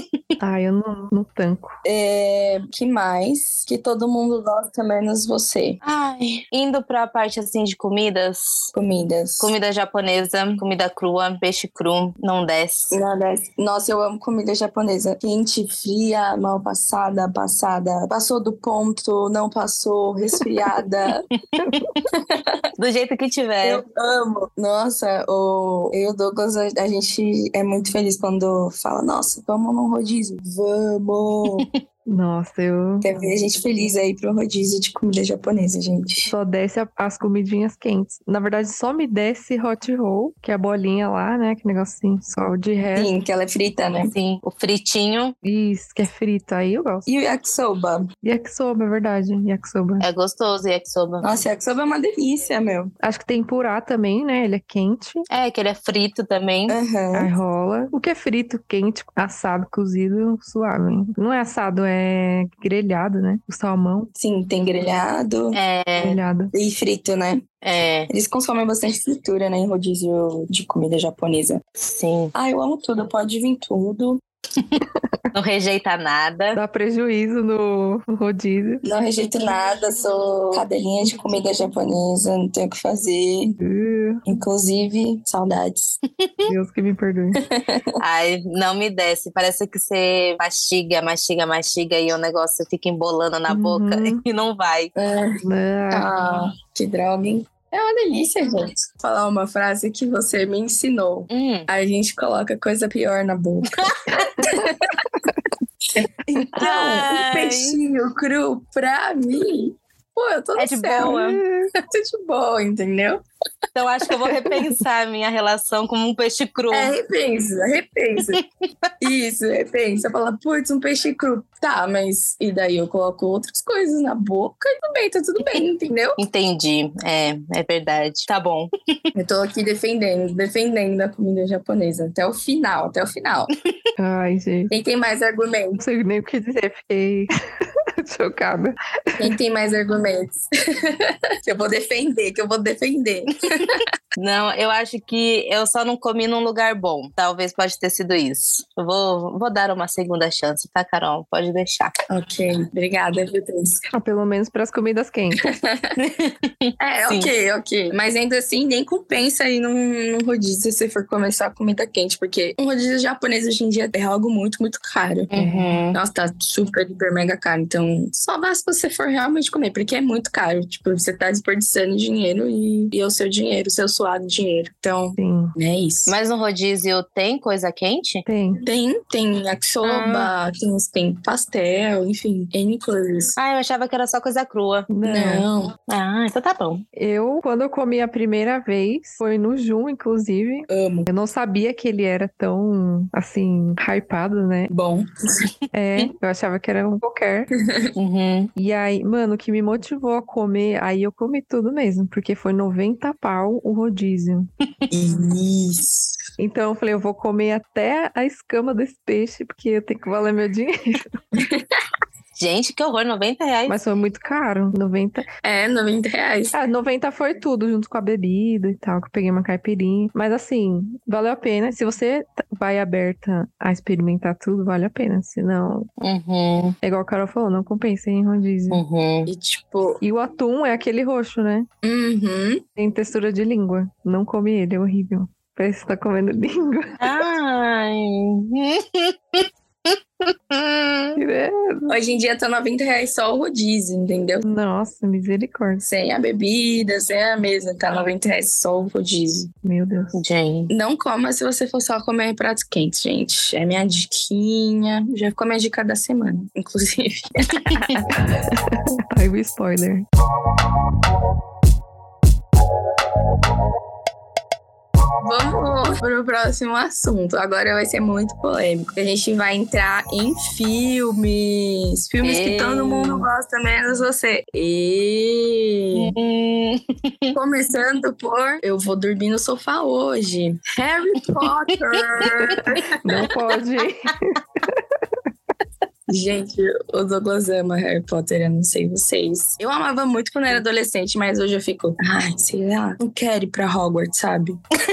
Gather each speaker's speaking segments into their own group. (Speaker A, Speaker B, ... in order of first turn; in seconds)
Speaker A: 0.4-1.8, 21.6-21.9, 32.0-33.1, 36.2-43.1, 45.4-47.1, 48.2-50.0, 53.0-55.2, 57.1-64.1, 66.0-66.5, 76.5-78.8, 83.6-84.2, 86.5-87.4, 93.5-94.2, 95.4-96.1, 104.1-104.5, 111.0-111.7, 114.3-114.6, 134.0-134.7, 135.8-137.3, 138.0-139.3, 153.9-155.5, 165.3-165.7, 175.2-175.5, 178.2-178.6, 184.9-185.4, 186.9-194.7, 195.7-197.5, 198.6-204.5, 206.4-211.2, 213.7-215.2, 216.5-225.9, 226.8-228.8, 230.0-231.7, 232.8-237.2, 241.2-241.9, 244.4-245.8, 249.6-250.2, 258.1-260.0, 283.0-284.8
Speaker B: 1.8-5.8, 8.7-9.5, 12.9-21.2, 22.1-22.6, 23.6-31.7, 33.0-36.3, 42.9-44.1, 47.0-48.1, 51.2-52.9, 56.7-57.3, 64.2-65.6, 66.5-67.5, 68.1-71.6, 72.3-74.2, 78.8-83.6, 84.2-86.0, 87.4-88.0, 95.0-95.4, 95.9-103.9, 104.4-104.9, 105.9-111.2, 111.8-113.2, 116.7-118.4, 119.0-126.2, 129.1-133.5, 134.7-135.8, 139.2-143.8, 152.1-153.8, 155.4-155.9, 156.8-165.3, 165.9-176.2, 178.6-183.3, 185.0-185.7, 190.7-191.1, 194.7-195.1, 197.6-197.9, 204.9-206.2, 211.3-211.8, 215.4-216.5, 229.3-230.0, 231.8-232.6, 241.9-244.4, 245.8-249.5, 250.7-258.2, 265.2-276.1, 277.3-283.0, 286.1-294.6
Speaker C: 5.8-8.7, 9.4-13.0, 21.5-22.1, 22.8-23.8, 44.1-45.3, 50.0-51.3, 55.3-56.8, 65.5-66.2, 67.6-68.1, 71.8-72.3, 75.3-76.6, 86.2-86.5, 88.0-94.9, 101.3-101.7, 103.9-104.3, 106.6-107.8, 110.6-111.4, 113.7-116.9, 118.3-118.9, 126.2-128.7, 144.2-151.9, 156.0-157.3, 165.3-166.0, 176.1-178.2, 179.8-180.3, 183.4-184.9, 185.9-186.8, 197.9-198.5, 212.3-213.8, 226.0-226.8, 228.7-229.3, 237.0-241.2, 250.1-250.7, 257.6-258.0, 272.2-273.3, 275.9-277.4, 282.2-282.9